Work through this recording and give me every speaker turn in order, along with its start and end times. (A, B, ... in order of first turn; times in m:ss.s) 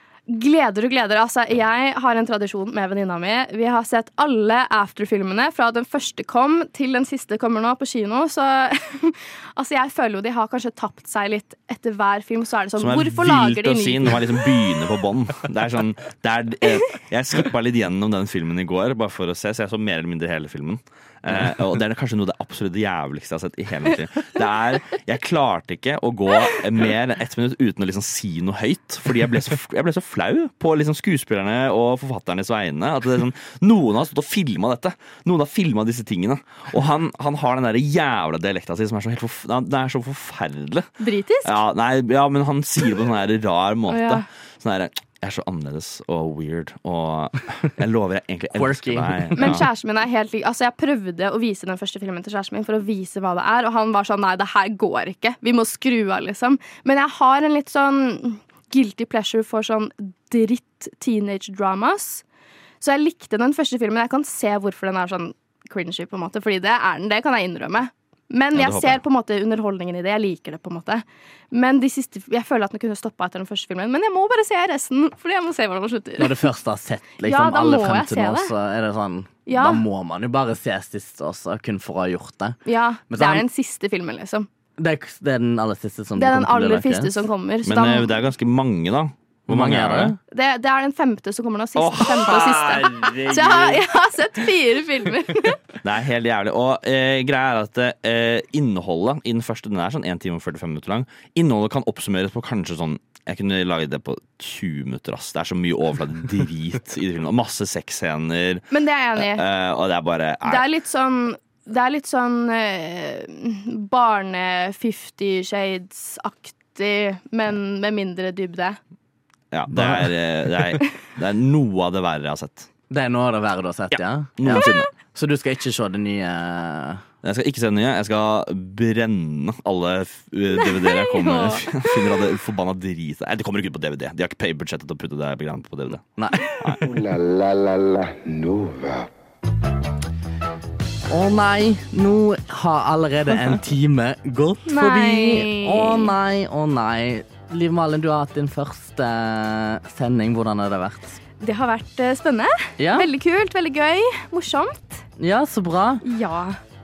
0:00.3-0:14.5 A
0:12.8-0:49.7 B
0:41.0-0:41.5 A
0:43.9-0:44.2 A
0:48.5-0:49.6 C
0:49.4-1:02.2 A
1:02.8-1:16.4 A
1:08.5-1:09.0 B
1:16.2-1:22.6 C
1:17.2-1:18.5 A
1:19.5-1:19.8 A
1:22.6-1:24.5 A
1:23.1-1:23.4 C
1:24.8-1:27.2 C
1:26.2-1:28.1 A
1:27.6-1:30.2 B
1:29.5-1:30.2 C
1:30.3-1:35.6 A
1:31.7-1:33.8 B
1:35.8-1:48.6 B
1:48.7-1:49.4 A
1:49.2-1:50.7 B
1:50.4-1:58.8 A
1:59.5-2:02.7 B
1:59.7-2:00.0 C
2:02.9-2:07.0 C
2:03.9-2:04.9 B
2:07.2-2:16.0 B
2:10.7-2:11.8 A
2:16.2-2:16.7 C
2:16.8-2:19.1 D
2:21.1-2:31.2 C
2:24.7-2:26.1 A
2:31.4-2:35.0 A
2:32.8-2:33.1 C
2:35.2-2:36.0 C
2:36.0-2:36.6 A